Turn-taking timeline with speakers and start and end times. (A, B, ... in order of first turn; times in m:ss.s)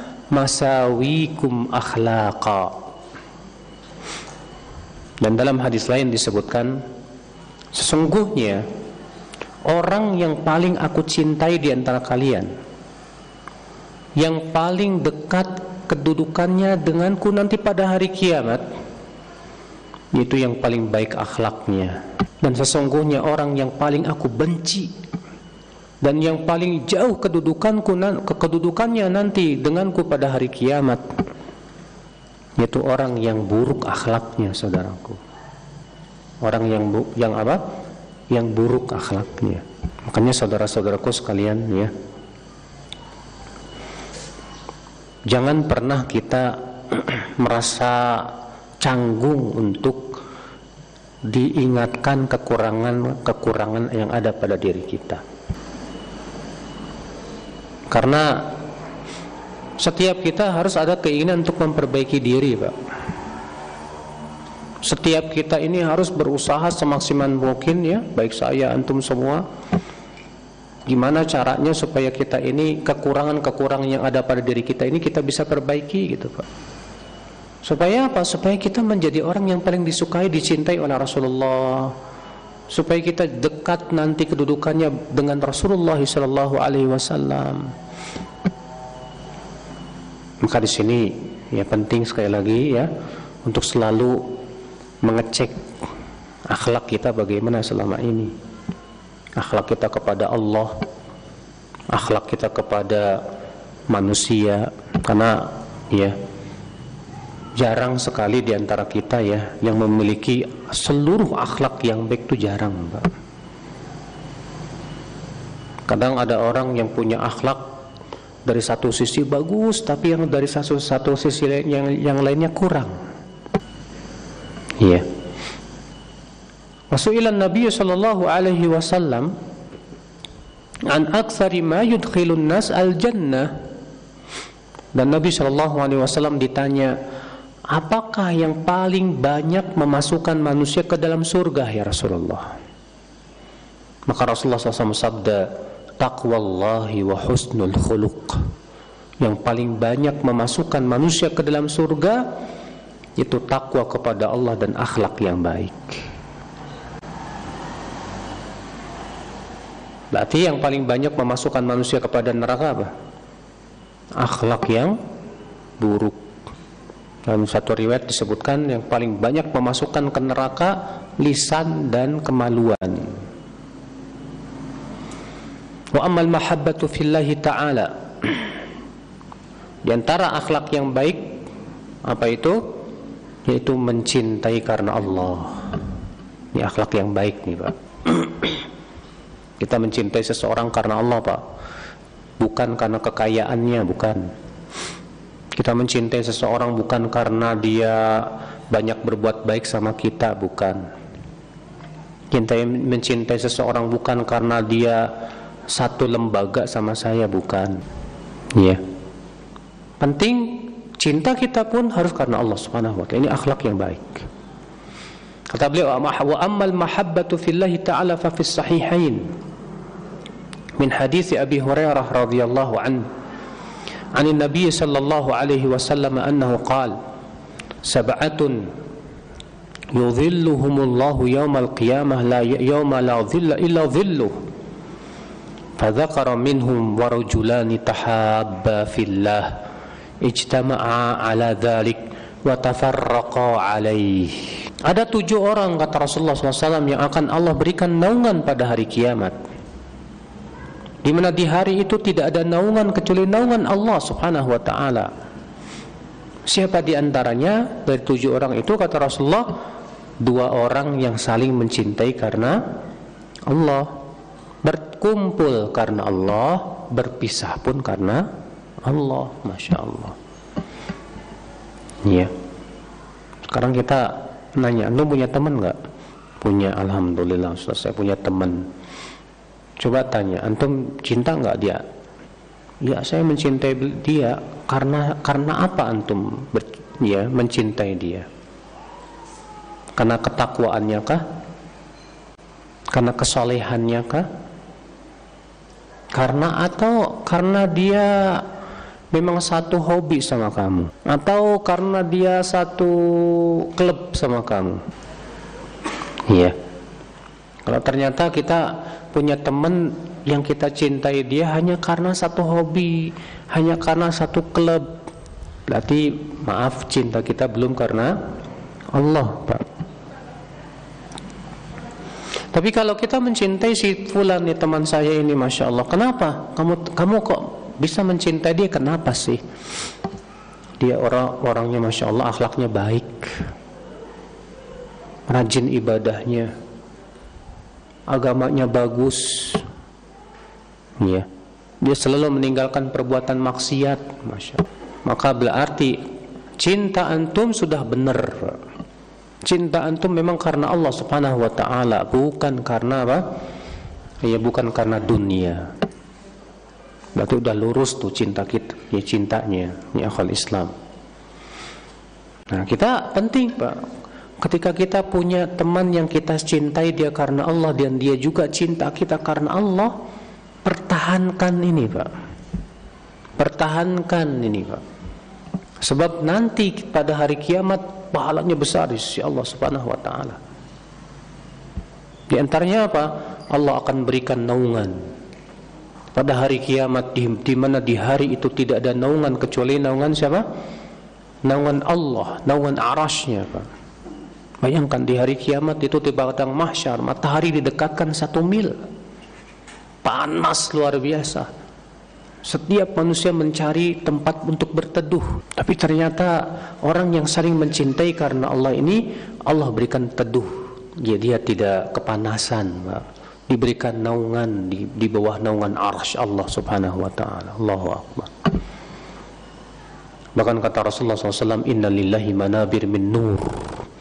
0:00.3-0:02.7 A
0:05.2-0:06.8 A
0:07.7-0:08.6 A
0:09.7-0:12.5 A
0:14.2-0:18.6 A
0:20.1-0:24.9 A
0:26.0-0:31.0 A
0:32.6-0:35.2 A
0:36.4-0:37.6 A
0:38.3-0:41.9 A
0:45.3-0:50.2 A
0:51.2-0:55.2 A
0:57.9-0:58.5 A
0:59.8-1:02.7 A
1:04.8-1:09.4 A
1:10.9-1:16.4 A
1:17.6-1:21.9 A
1:22.7-1:27.7 A
1:30.4-1:32.9 A
1:33.4-1:34.4 A
1:35.0-1:35.5 A
1:36.5-1:38.3 A
1:39.4-1:40.8 A
1:41.9-1:43.2 A
1:43.9-1:46.2 A
1:47.6-1:53.1 A
1:55.9-1:57.7 A
1:58.4-2:02.9 A
2:04.8-2:05.0 A
2:06.9-2:09.3 A
2:10.9-2:13.5 A
2:14.9-2:16.9 A
2:17.7-2:22.5 A
2:24.1-2:25.4 A
2:26.0-2:28.4 A
2:29.2-2:32.2 A
2:33.2-2:36.0 A
2:40.1-2:42.9 A
2:44.2-2:45.0 A
2:45.8-2:46.2 A
2:47.2-2:53.2 A
2:55.9-2:58.5 A
2:59.8-3:01.4 A
3:02.0-3:02.6 A
3:03.4-3:05.6 A
3:06.5-3:08.6 A
3:09.6-3:11.4 A
3:12.4-3:14.2 A
3:15.6-3:20.8 A
3:22.3-3:25.0 A
3:25.7-3:27.7 A
3:30.0-3:34.2 A
3:35.5-3:39.2 A
3:40.8-3:43.0 A
3:44.2-3:46.9 A
3:47.8-3:48.6 A
3:49.9-3:54.3 A
3:55.8-3:59.5 A
4:00.2-4:09.4 A
4:11.0-4:15.1 A
4:16.4-4:19.5 A
4:20.2-4:22.6 A
4:23.5-4:23.9 A
4:24.6-4:28.2 A
4:28.8-4:30.2 A
4:32.0-4:32.3 A
4:33.5-4:35.8 A
4:36.4-4:38.7 A
4:39.8-4:41.8 A
4:42.8-4:48.2 A
4:50.0-4:51.2 A
4:52.9-4:54.2 A
4:56.1-4:58.4 A
4:59.1-5:04.8 A
5:06.3-5:06.6 A
5:07.6-5:14.9 A
5:15.7-5:18.2 A
5:18.9-5:19.6 A
5:22.5-5:29.4 A
5:30.8-5:33.4 A
5:35.3-5:36.5 A
5:38.1-5:39.6 A
5:41.0-5:41.3 A
5:41.8-5:46.0 A
5:46.6-5:48.6 A
5:49.4-5:53.2 A
5:54.2-5:55.7 A
5:57.2-6:00.7 A
6:02.5-6:03.8 A
6:04.4-6:09.9 A
6:10.6-6:12.1 A
6:13.4-6:14.8 A
6:15.8-6:20.4 A
6:22.3-6:25.0 A
6:26.1-6:30.4 A
6:31.4-6:33.7 A
6:34.6-6:38.7 A
6:40.0-6:41.5 A
6:42.4-6:58.3 A
7:00.4-7:03.8 A